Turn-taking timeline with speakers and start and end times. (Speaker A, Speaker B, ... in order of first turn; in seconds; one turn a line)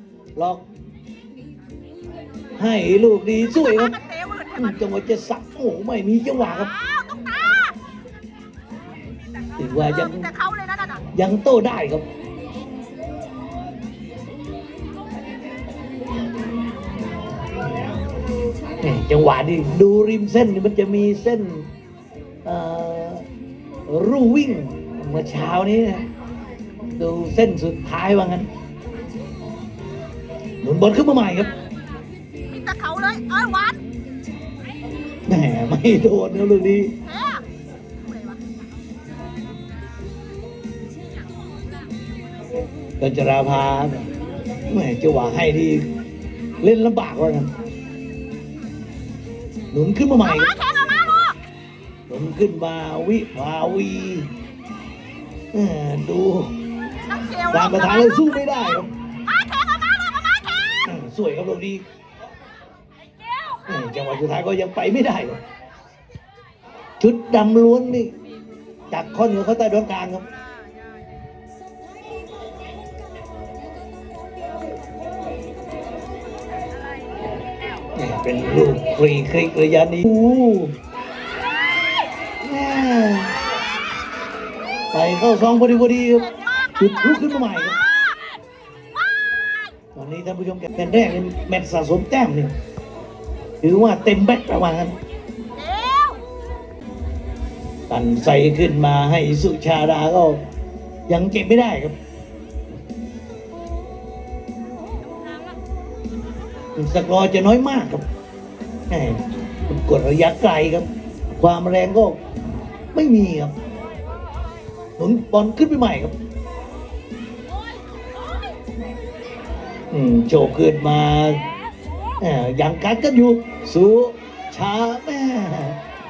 Speaker A: 0.3-0.6
Speaker A: 2.5-4.0
Speaker B: 3.8-4.6
Speaker A: 4.5-6.7
Speaker A: 9.6-10.3
Speaker B: 10.1-11.0
Speaker A: 11.1-12.1
Speaker A: 18.8-21.7
Speaker A: 22.4-23.2
Speaker A: 23.9-26.1
Speaker A: 26.9-28.5
Speaker A: 30.6-31.5
Speaker B: 32.5-33.8
Speaker A: 35.2-36.9
Speaker B: 37.0-37.4
Speaker B: 38.0-38.6
Speaker A: 43.0-44.1
Speaker A: 44.7-45.9
Speaker A: 46.6-47.5
Speaker A: 49.7-50.6
Speaker B: 50.4-51.3
Speaker A: 52.1-54.3
Speaker A: 55.5-56.5
Speaker B: 57.1-58.0
Speaker A: 57.5-58.9
Speaker B: 59.3-60.8
Speaker A: 60.8-61.8
Speaker A: 63.7-65.4
Speaker A: 67.0-68.1
Speaker A: 68.9-70.2
Speaker A: 77.9-80.8
Speaker A: 82.4-83.3
Speaker A: 84.9-87.8
Speaker A: 89.9-92.5
Speaker A: 93.6-95.0
Speaker B: 95.6-96.2
Speaker A: 97.9-100.4
Speaker A: 101.1-102.0
Speaker A: 106.8-108.0
Speaker A: 108.9-110.9
Speaker A: 111.4-112.2
Speaker A: 112.9-113.5
Speaker A: 115.0-116.1
Speaker A: 119.9-121.4
Speaker A: 122.2-125.8